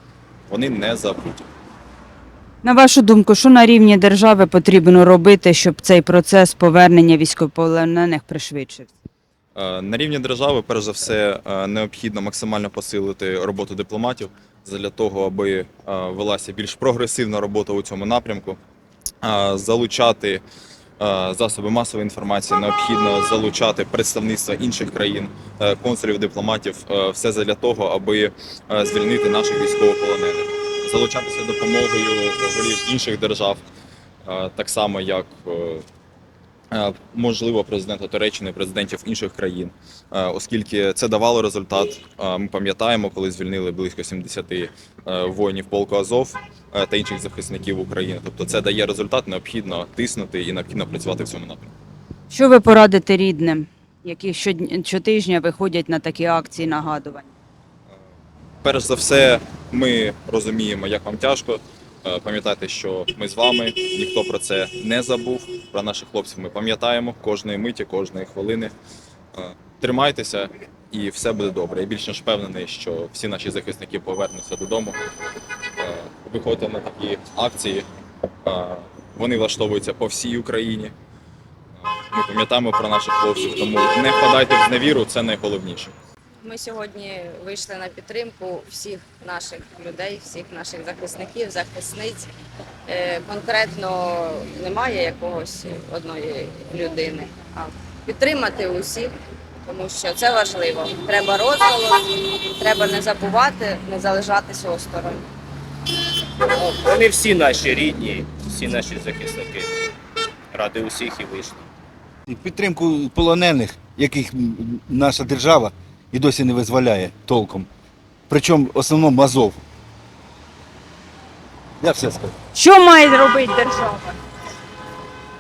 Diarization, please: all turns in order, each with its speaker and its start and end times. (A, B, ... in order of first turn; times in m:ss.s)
0:00.5-0:01.4 A
0:02.6-0:08.9 B
0:09.6-0:18.6 A
0:19.2-0:20.4 A
0:21.0-0:33.6 A
0:34.3-0:35.8 A
0:36.7-0:51.7 A
0:52.3-0:57.2 B
0:58.6-1:08.7 A
1:09.4-1:15.0 A
1:15.8-1:17.8 A
1:18.4-1:20.9 A
1:21.8-1:25.9 A
1:26.4-1:32.3 C
1:32.9-1:39.1 C
1:39.7-1:45.3 C
1:46.4-1:49.7 D
1:50.5-1:51.7 D
1:52.3-1:57.7 E
1:58.3-1:59.6 E
2:01.8-2:02.3 E
2:02.5-2:04.2 B